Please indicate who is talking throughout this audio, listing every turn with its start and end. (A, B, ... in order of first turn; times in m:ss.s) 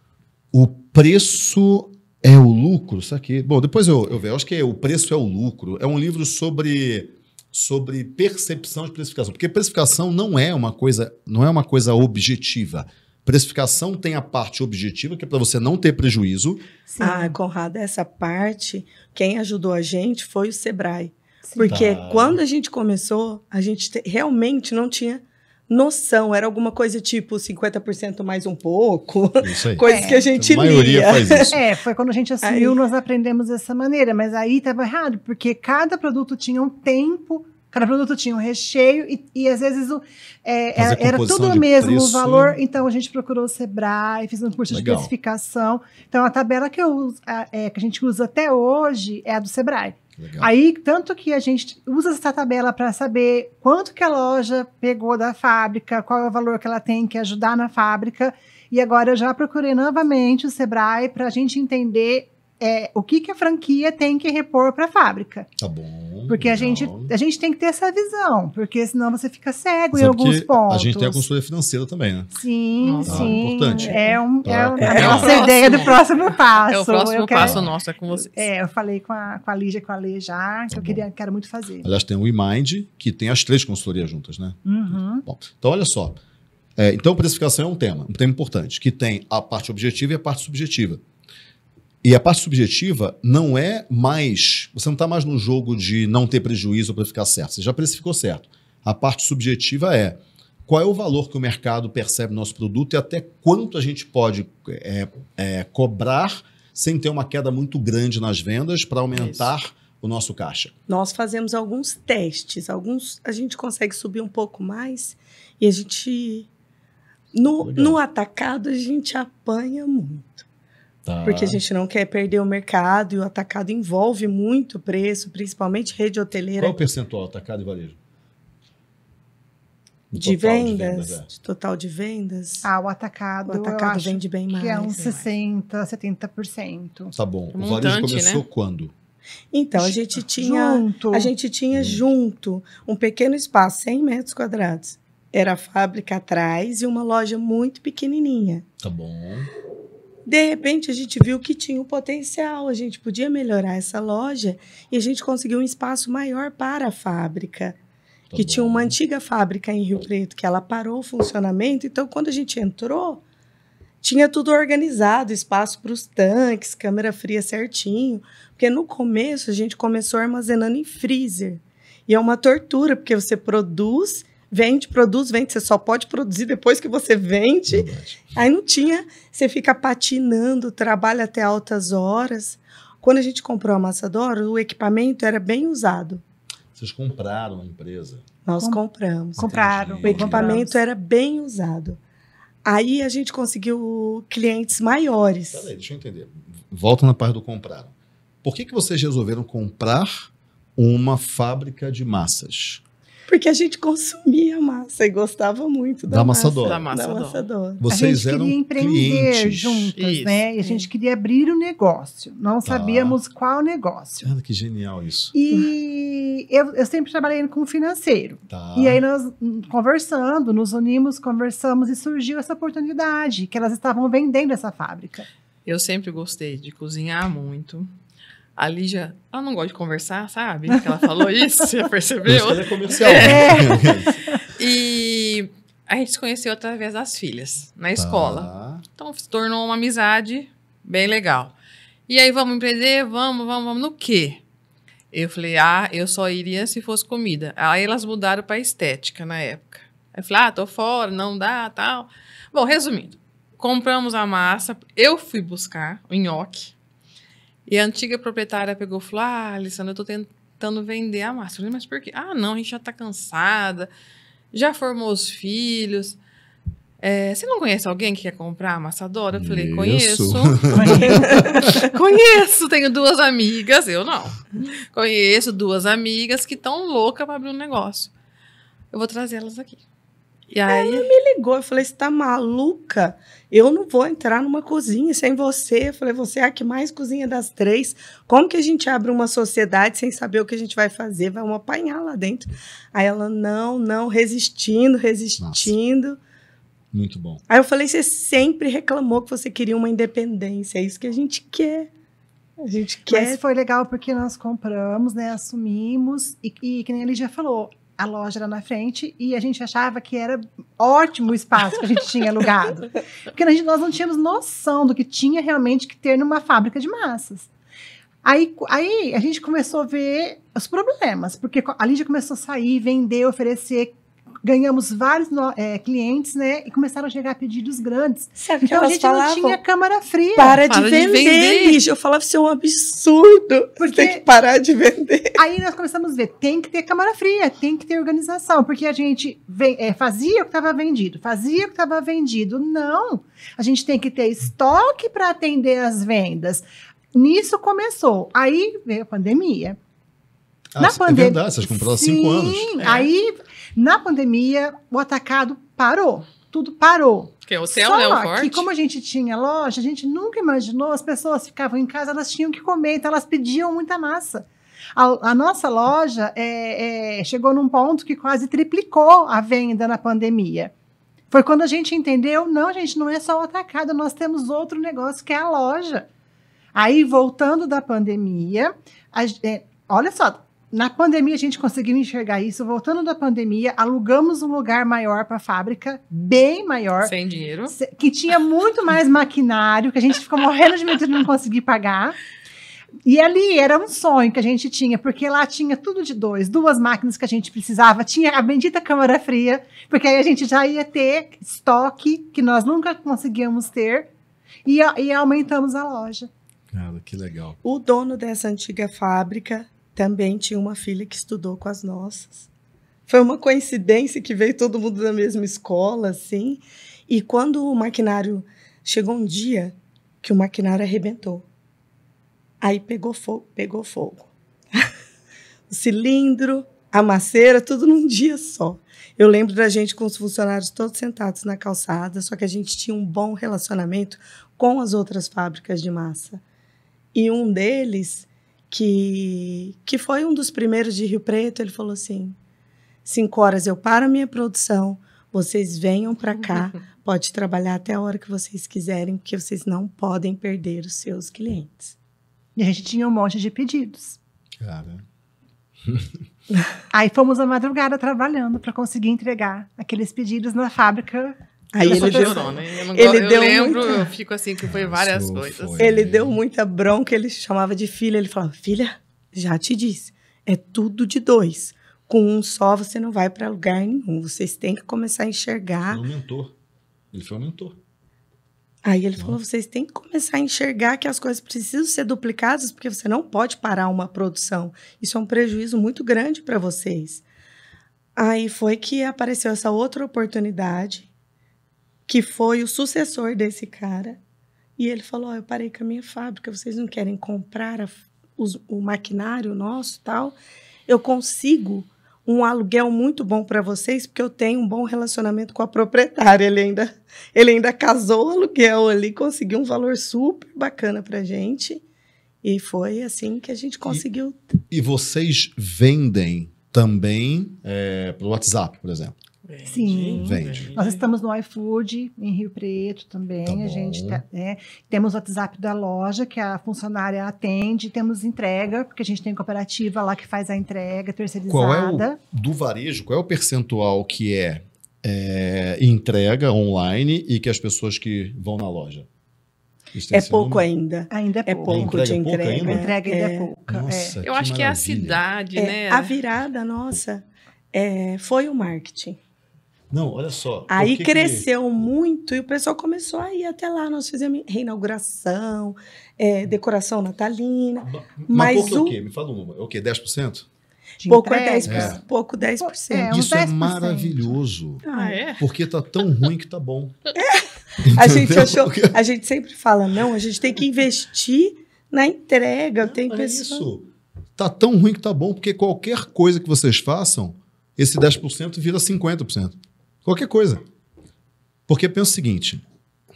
0:00.5-0:16.6 A
0:16.9-0:17.4 B
0:17.0-0:31.6 C
0:21.4-0:21.8 B
0:21.6-0:22.4 A
0:29.4-0:31.6 A
0:29.8-0:30.2 B
0:31.3-1:05.5 B
0:32.4-0:32.8 C
0:40.8-0:42.6 A
0:44.7-0:45.1 A
0:50.2-0:50.5 A
1:05.6-1:07.1 A
1:06.3-1:11.2 B
1:09.9-1:12.3 A
1:12.3-1:17.6 B
1:12.8-1:13.4 D
1:13.0-1:15.4 A
1:13.7-1:14.2 C
1:14.8-1:15.4 C
1:14.8-1:16.0 D
1:16.7-1:18.5 D
1:17.4-1:17.7 A
1:18.1-1:21.9 B
1:20.7-1:21.0 A
1:21.8-1:26.2 A
1:24.6-1:25.2 B
1:26.8-1:31.0 A
1:32.0-1:50.7 A
1:49.1-1:49.5 D
1:50.9-1:56.5 C
1:57.3-2:00.4 C
1:57.6-1:58.0 A
2:01.0-2:01.6 A
2:01.2-2:06.8 C
2:06.6-2:08.0 A
2:10.1-2:11.3 A
2:10.1-2:12.6 C
2:12.6-2:17.1 B
2:13.5-2:15.2 C
2:17.1-2:18.9 A
2:17.5-2:18.4 D
2:19.5-2:28.6 C
2:19.8-2:21.3 B
2:21.7-2:22.0 A
2:28.8-2:29.5 A
2:30.3-2:37.8 C
2:38.3-2:39.0 A
2:38.3-2:43.2 C
2:44.0-3:06.2 C
2:57.7-2:58.3 A
3:06.7-3:08.2 A
3:08.4-3:12.0 C
3:09.4-3:10.8 B
3:09.4-3:10.6 A
3:12.6-3:15.7 C
3:15.5-3:22.8 A
3:23.3-3:27.8 C
3:26.1-3:26.8 A
3:26.6-3:27.5 D
3:27.8-3:29.9 A
3:27.9-3:34.3 B
3:30.0-3:30.4 D
3:32.6-3:33.2 A
3:34.2-3:35.3 A
3:35.3-3:45.3 B
3:38.5-3:39.0 A
3:45.6-3:47.9 D
3:48.6-3:53.8 D
3:52.2-3:54.1 A
3:53.1-3:54.4 B
3:54.6-4:01.5 D
3:58.0-3:58.8 A
4:02.1-4:04.4 D
4:05.1-4:16.7 D
4:17.7-4:23.9 D
4:24.5-4:26.2 D
4:27.0-4:38.1 D
4:29.3-4:31.8 A
4:30.7-4:31.2 B
4:31.0-4:31.7 C
4:38.9-4:39.8 D
4:40.5-4:41.1 D
4:40.7-4:56.2 C
4:55.4-4:55.7 A
4:56.9-4:57.4 A
4:57.5-5:01.9 C
5:02.6-5:03.4 C
5:03.1-5:17.5 B
5:18.2-5:30.6 B
5:28.4-5:29.6 C
5:30.4-5:35.4 C
5:30.7-5:31.8 D
5:33.8-5:34.2 B
5:35.4-5:49.8 B
5:50.7-5:52.7 A
5:50.8-6:10.7 B
5:52.8-5:53.1 D
5:57.5-5:58.7 D
6:11.3-6:16.1 B
6:16.7-6:27.1 B
6:27.0-6:27.7 D
6:27.7-6:32.2 B
6:33.0-6:44.1 B
6:44.6-6:46.3 B
6:46.7-6:47.6 A
6:47.6-6:52.5 C
6:53.1-7:01.4 C
7:02.6-7:04.9 C
7:05.7-7:16.4 C
7:17.1-7:22.4 C
7:23.0-7:31.9 C
7:32.6-7:34.2 B
7:34.6-7:35.0 A
7:35.8-7:36.1 A
7:36.9-7:42.4 B
7:41.7-7:44.0 C
7:41.8-7:45.9 D
7:44.6-7:46.4 A
7:45.8-7:56.0 C
7:55.9-7:56.5 A
7:57.1-7:57.8 A
7:58.8-8:07.2 C
8:08.2-8:11.1 C
8:12.1-8:14.2 C
8:14.8-8:31.8 C
8:32.4-8:34.5 C
8:34.7-8:39.1 A
8:39.4-8:41.0 D
8:39.6-8:52.2 B
8:40.1-8:40.7 A
8:43.4-8:44.2 A
8:51.5-8:59.1 A
8:59.9-9:00.6 A
9:00.1-9:03.5 C
9:01.1-9:02.0 B
9:01.7-9:02.9 A
9:02.6-9:04.2 B
9:03.7-9:05.2 A
9:04.2-9:06.2 D
9:05.6-9:09.2 C
9:09.9-9:11.5 A
9:10.7-9:19.0 C
9:17.8-9:20.4 A
9:21.0-9:24.3 B
9:21.1-9:23.2 C
9:21.6-9:22.0 A
9:23.1-9:24.8 A
9:24.8-9:25.2 C
9:24.9-9:25.4 D
9:25.4-9:27.0 A
9:27.2-9:33.6 C
9:27.8-9:28.9 A
9:32.8-9:40.6 A
9:41.7-9:42.6 A